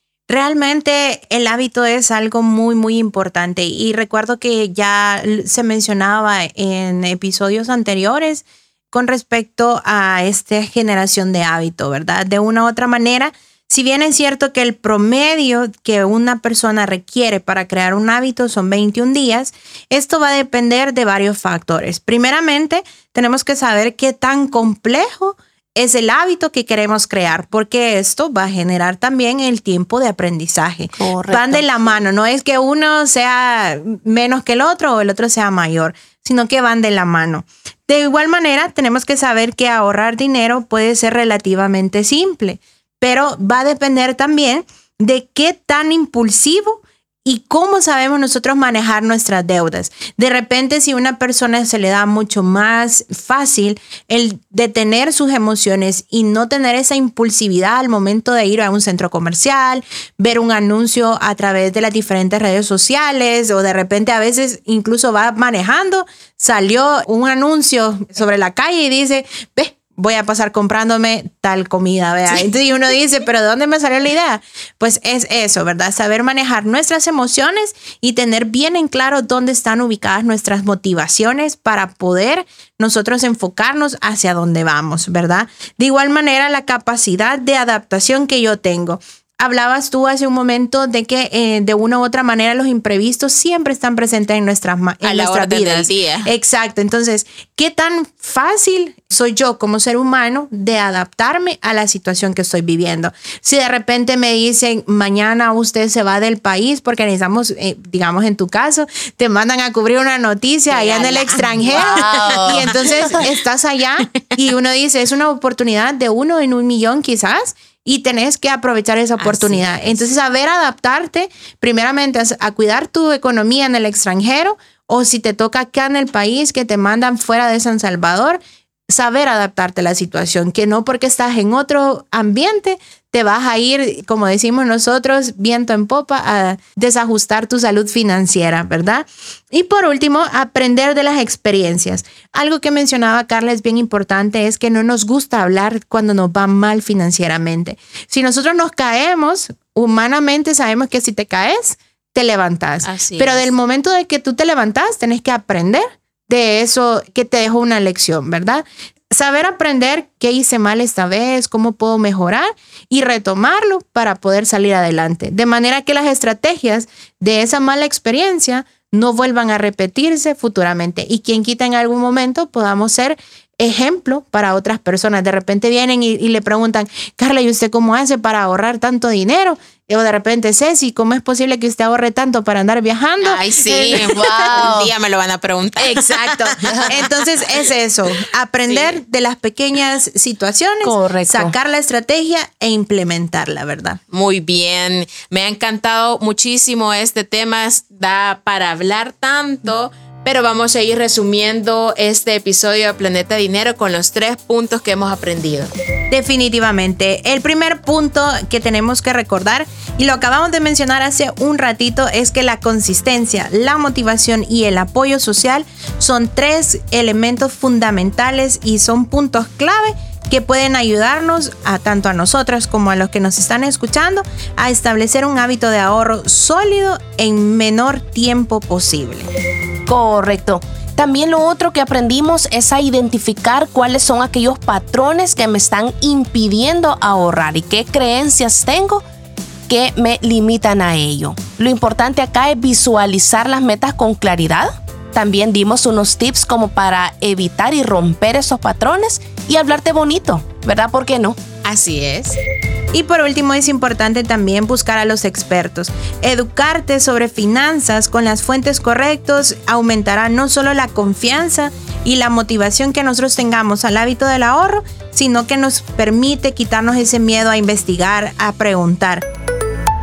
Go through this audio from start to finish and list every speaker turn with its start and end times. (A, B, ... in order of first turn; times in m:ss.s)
0:00.3-3:04.7 A
0:31.0-0:32.0 B
1:35.0-1:36.3 C
1:50.7-1:53.3 C
1:51.7-1:53.2 B
1:59.2-2:00.0 C
2:32.8-2:33.5 C
3:03.2-3:07.3 C
3:03.7-3:04.9 B
3:05.8-3:14.0 A
3:08.7-3:09.0 C
3:10.8-3:11.5 B
3:14.1-3:25.7 C
3:26.1-3:49.3 A
3:49.8-3:59.0 B
3:59.7-4:11.4 B
4:11.6-4:12.4 C
4:12.9-4:29.2 A